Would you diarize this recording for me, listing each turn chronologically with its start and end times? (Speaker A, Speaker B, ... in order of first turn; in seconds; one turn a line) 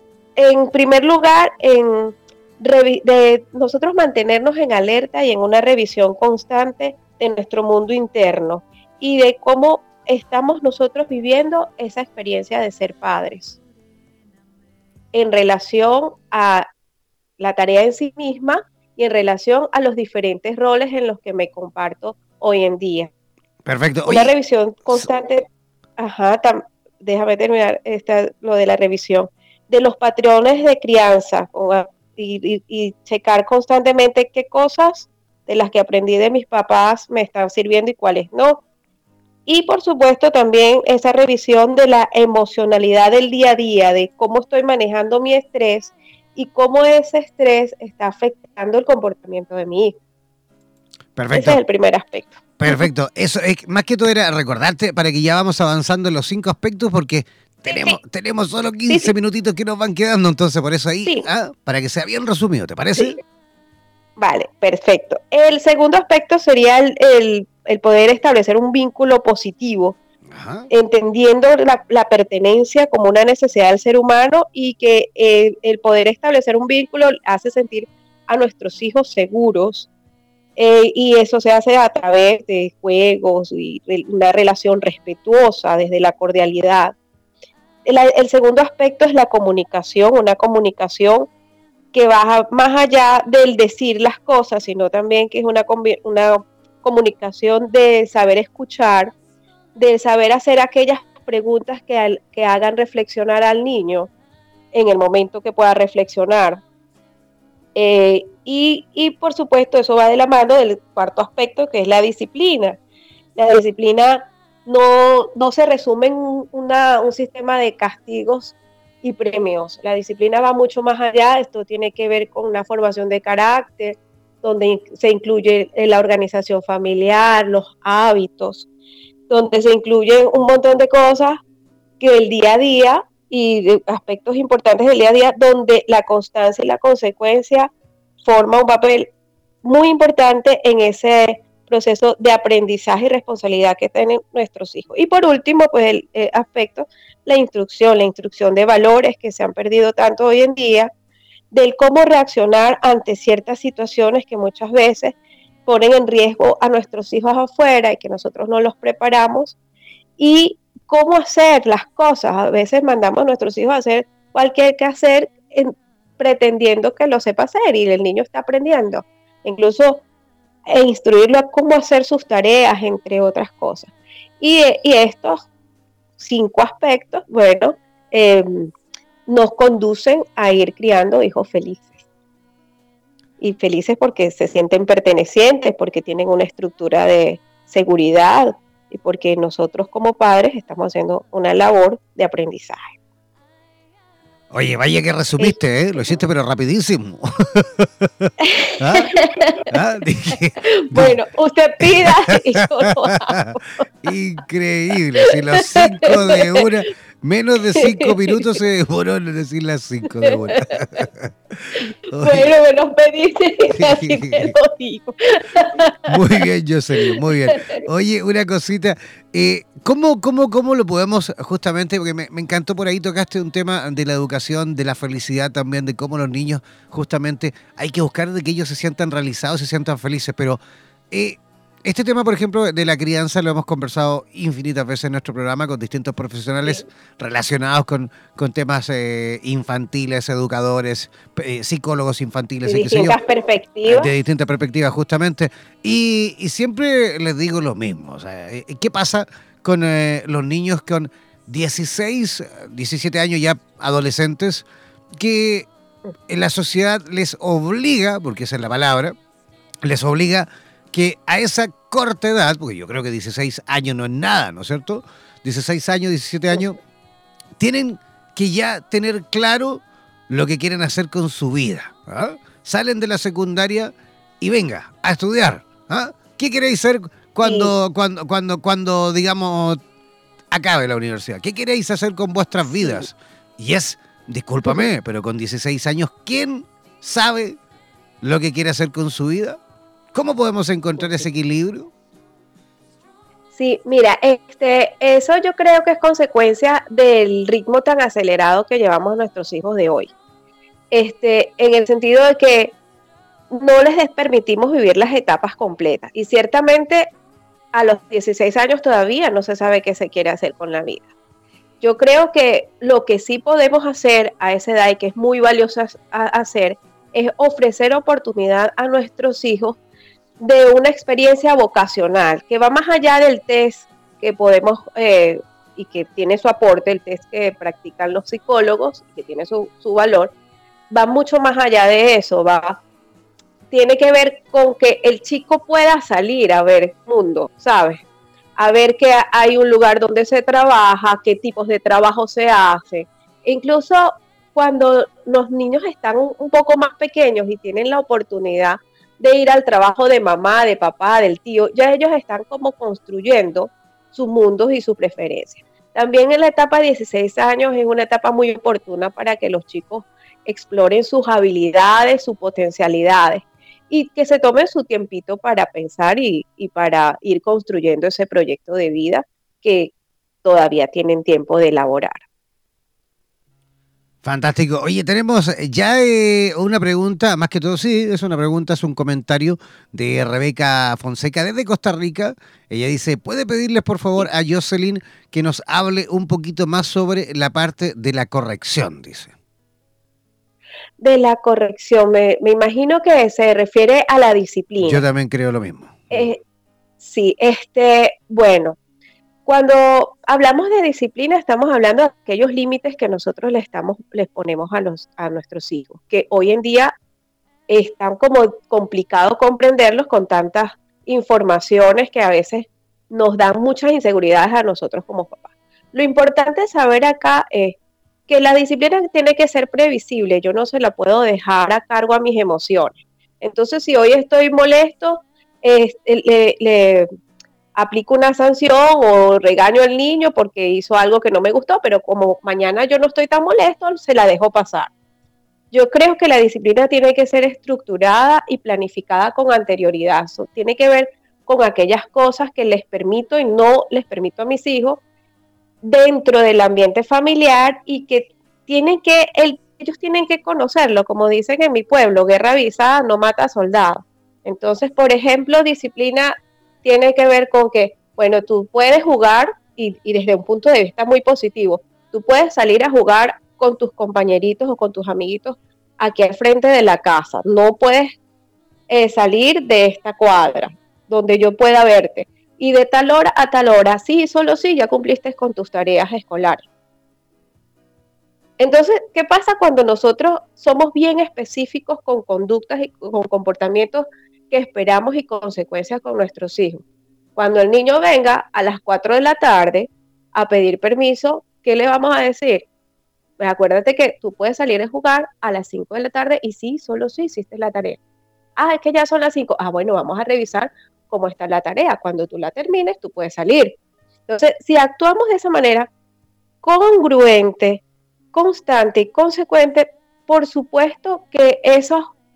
Speaker A: 0.3-13.6
Speaker A: 15.1-16.7
Speaker A: 17.4-23.1
Speaker B: 23.6-24.3
Speaker A: 24.1-25.5
Speaker A: 26.0-38.6
Speaker A: 39.5-49.9
Speaker B: 51.1-51.6
Speaker A: 51.3-52.9
Speaker B: 52.6-63.2
Speaker A: 57.6-58.0
Speaker A: 63.0-63.2
Speaker A: 64.2-70.0
Speaker B: 70.3-70.7
Speaker A: 70.7-79.9
Speaker A: 80.5-86.9
Speaker A: 87.8-91.3
Speaker A: 91.9-99.1
Speaker A: 99.7-104.1
Speaker A: 104.7-106.6
Speaker A: 107.7-112.8
Speaker A: 113.3-128.7
Speaker A: 129.3-131.4
Speaker A: 132.0-137.7
Speaker A: 138.2-139.1
Speaker A: 139.6-150.9
Speaker A: 151.5-159.6
Speaker A: 160.2-170.0
Speaker A: 170.7-175.4
Speaker A: 176.2-178.7
Speaker A: 179.2-182.0
Speaker A: 183.4-192.9
Speaker B: 194.5-201.2
Speaker A: 198.4-199.7
Speaker A: 200.6-203.8
Speaker B: 201.8-203.4
Speaker B: 204.0-212.5
Speaker A: 205.2-206.8
Speaker A: 207.7-208.6
Speaker A: 210.2-210.8
Speaker A: 211.7-216.4
Speaker B: 213.7-214.5
Speaker B: 216.1-230.6
Speaker A: 216.9-217.8
Speaker B: 231.1-243.2
Speaker A: 242.6-244.1
Speaker B: 243.9-255.7
Speaker B: 256.3-259.1
Speaker B: 259.8-266.8
Speaker B: 267.6-279.8
Speaker A: 277.4-277.7
Speaker B: 280.5-287.6
Speaker B: 288.2-289.6
Speaker B: 290.1-291.9
Speaker A: 293.5-300.1
Speaker A: 300.9-302.7
Speaker A: 303.5-307.1
Speaker A: 307.7-311.1
Speaker A: 311.8-319.8
Speaker A: 320.4-330.3
Speaker A: 330.9-332.8
Speaker A: 333.7-338.0
Speaker A: 338.6-369.9
Speaker A: 370.4-372.2
Speaker B: 374.2-389.3
Speaker A: 391.0-395.0
Speaker B: 394.8-396.3
Speaker A: 396.1-396.4
Speaker A: 397.0-398.8
Speaker A: 399.4-406.9
Speaker A: 407.7-417.8
Speaker A: 418.3-427.1
Speaker A: 427.7-434.9
Speaker A: 435.7-445.0
Speaker A: 445.8-468.1
Speaker A: 468.9-476.6
Speaker A: 478.6-486.8
Speaker A: 487.4-492.7
Speaker A: 493.4-498.0
Speaker A: 498.6-503.8
Speaker A: 504.3-505.9
Speaker A: 506.6-507.8
Speaker A: 508.3-512.1